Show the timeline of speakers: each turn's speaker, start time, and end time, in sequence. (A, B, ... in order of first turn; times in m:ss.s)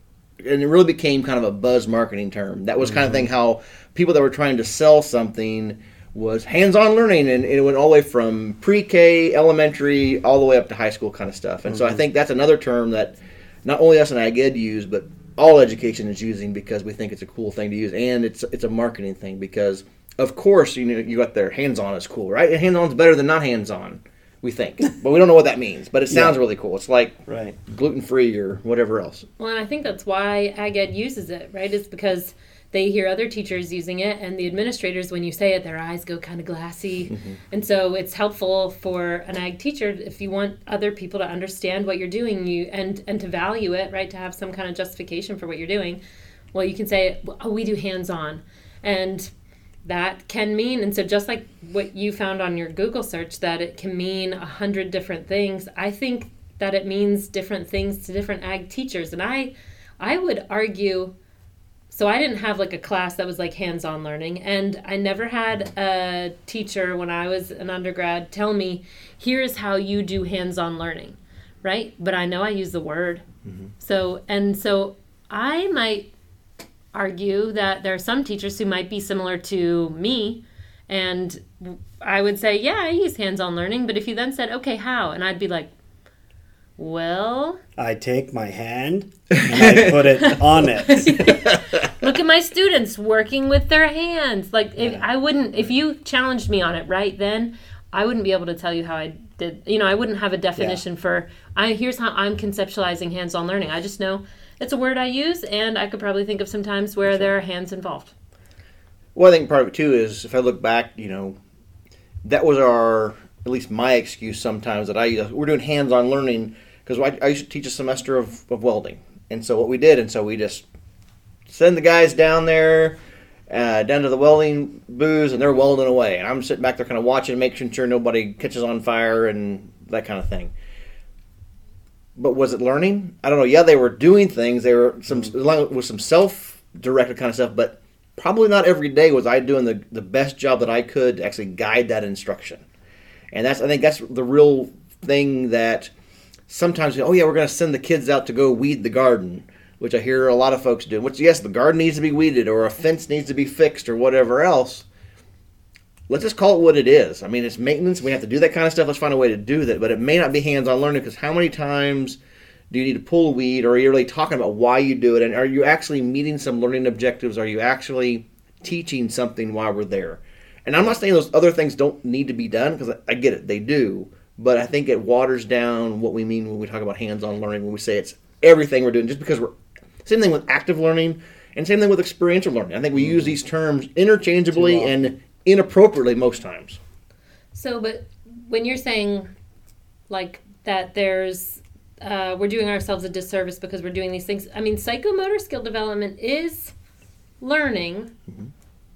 0:00.4-0:29.2 A
0:11.7-0:12.0 B
0:26.1-0:26.4 B
0:27.3-0:27.6 B
0:29.4-0:46.0 C
0:37.1-0:37.4 A
0:46.5-0:49.3 C
0:49.8-1:01.1 C
1:01.9-1:13.2 C
1:13.8-1:16.1 C
1:16.9-1:25.7 C
1:26.8-1:27.6 C
1:27.8-1:31.3 B
1:29.6-1:29.9 A
1:30.8-1:48.1 C
1:34.8-1:35.0 B
1:49.2-1:51.4 A
1:52.2-2:00.6 A
2:01.5-2:03.0 A
2:03.5-2:10.5 A
2:12.2-2:22.6 A
2:23.3-2:25.9 A
2:26.5-2:34.8 A
2:36.1-2:42.2 A
2:42.7-2:59.5 A
3:00.0-3:06.8 A
3:04.5-3:05.0 B
3:07.5-3:09.3 C
3:10.1-3:16.7 C
3:17.4-3:18.1 C